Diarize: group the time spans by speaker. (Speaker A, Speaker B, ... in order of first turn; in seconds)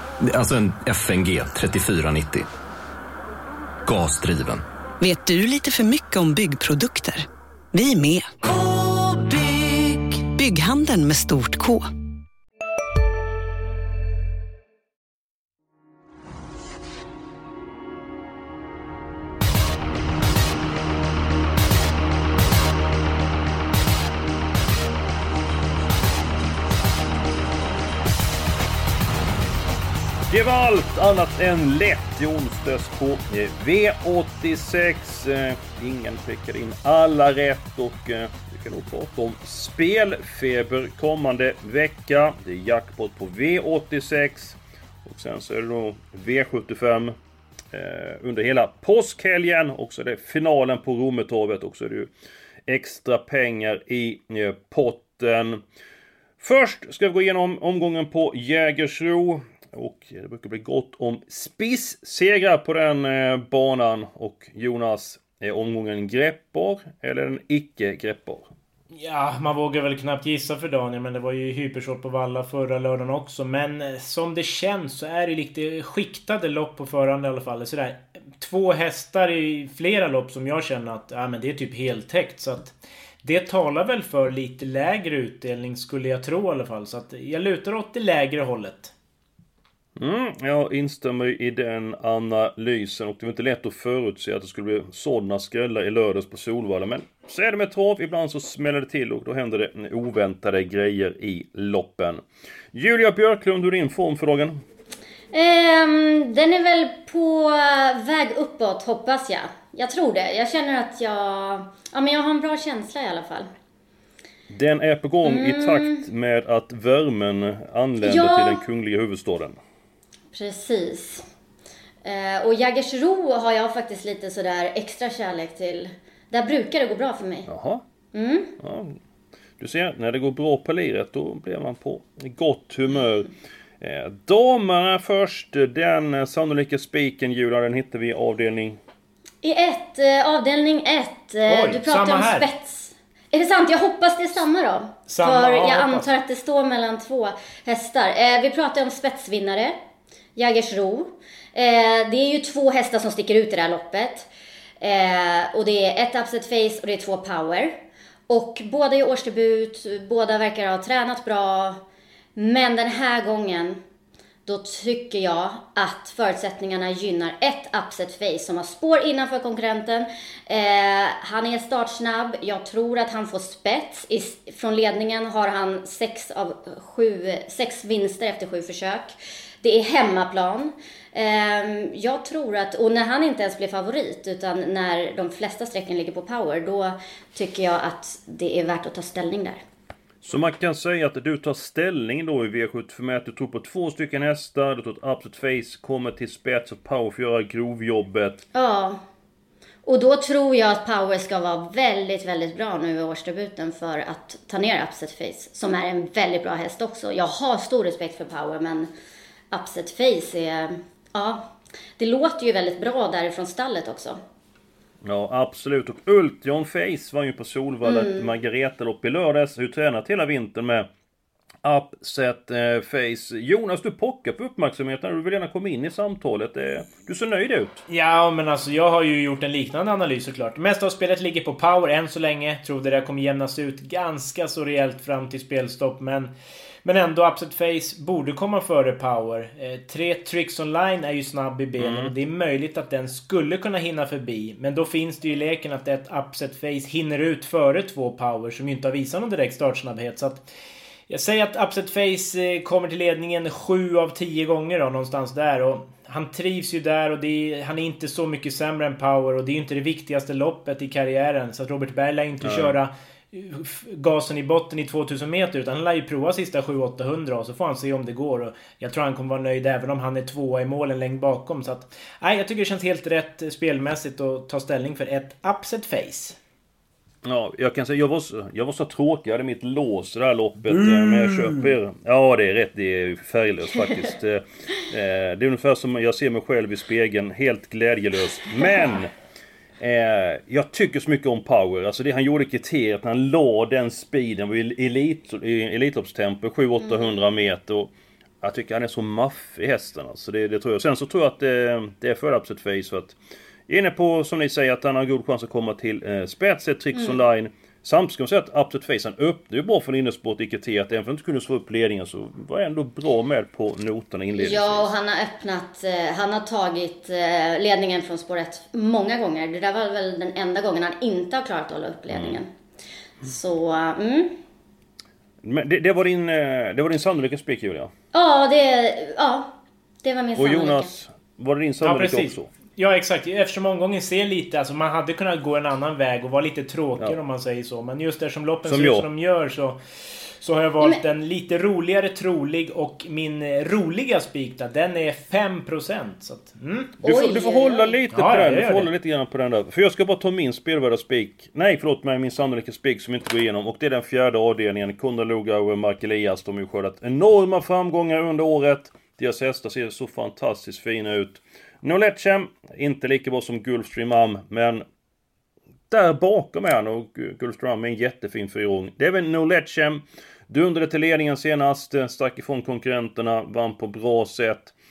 Speaker A: 0.2-2.5, 3.8-4.6
Speaker B: 5.0-11.9
Speaker C: 30.3-47.2, 47.7-52.1, 52.7-55.6, 56.4-68.5, 90.0-104.6, 114.5-119.6, 127.5-127.8, 128.6-129.0, 129.6-133.3, 133.8-138.8, 190.2-198.4, 215.0-220.9, 221.6-227.8, 241.8-242.1, 262.4-262.7, 277.2-289.1, 289.8-303.2, 303.7-314.9, 322.1-322.4, 325.4-327.9, 330.4-332.5, 338.6-339.1, 347.0-364.8, 365.9-374.7
Speaker D: 68.9-88.9, 141.5-142.5, 145.1-146.1, 227.9-236.3, 236.8-250.5, 251.1-276.4, 280.6-281.7, 331.8-339.8, 340.4-346.9, 348.1-348.9
Speaker E: 105.3-113.5, 115.2-116.0, 118.0-118.6, 120.3-121.2, 122.0-127.5, 128.1-128.5, 139.4-149.7, 150.3-154.3, 154.8-157.8, 158.3-161.8, 162.3-163.8, 164.4-189.6, 198.5-199.0, 199.8-208.9, 209.5-214.2, 217.8-218.3, 306.9-307.2, 314.4-322.5, 323.2-324.4, 328.1-329.5, 330.0-330.9, 347.0-348.0